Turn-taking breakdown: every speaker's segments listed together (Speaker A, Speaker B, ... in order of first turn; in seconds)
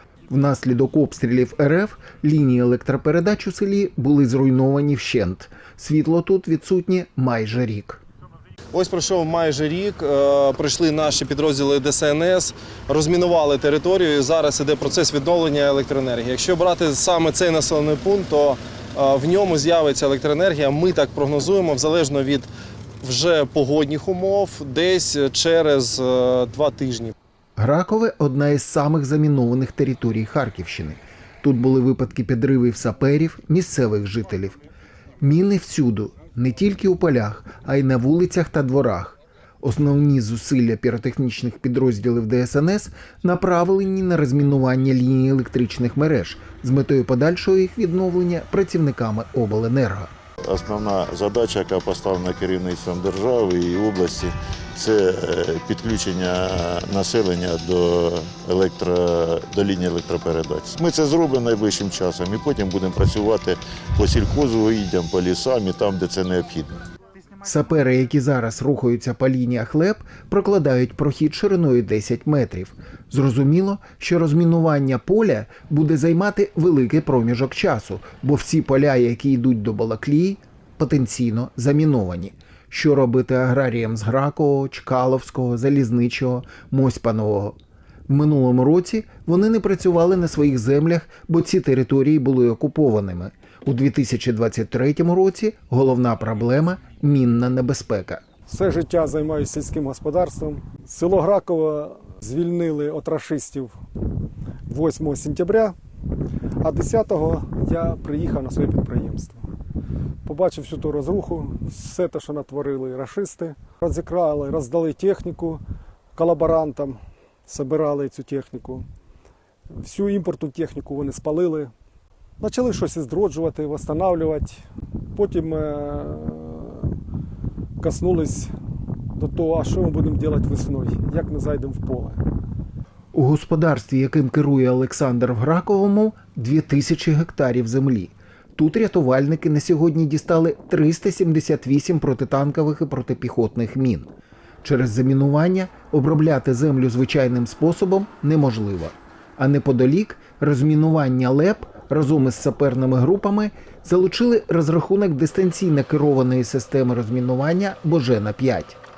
Speaker A: 0.3-8.0, 27.6-34.6, 35.2-50.1, 67.4-87.6, 88.1-98.2, 133.1-144.1, 144.6-158.8
Speaker B: 8.7-22.5, 23.0-27.1
Speaker C: 50.5-66.8
Speaker D: 98.5-103.8, 104.7-105.8, 106.6-109.4, 110.2-115.6, 116.2-118.9, 119.7-121.7, 122.4-124.6, 125.2-126.9, 127.8-128.5, 129.2-132.2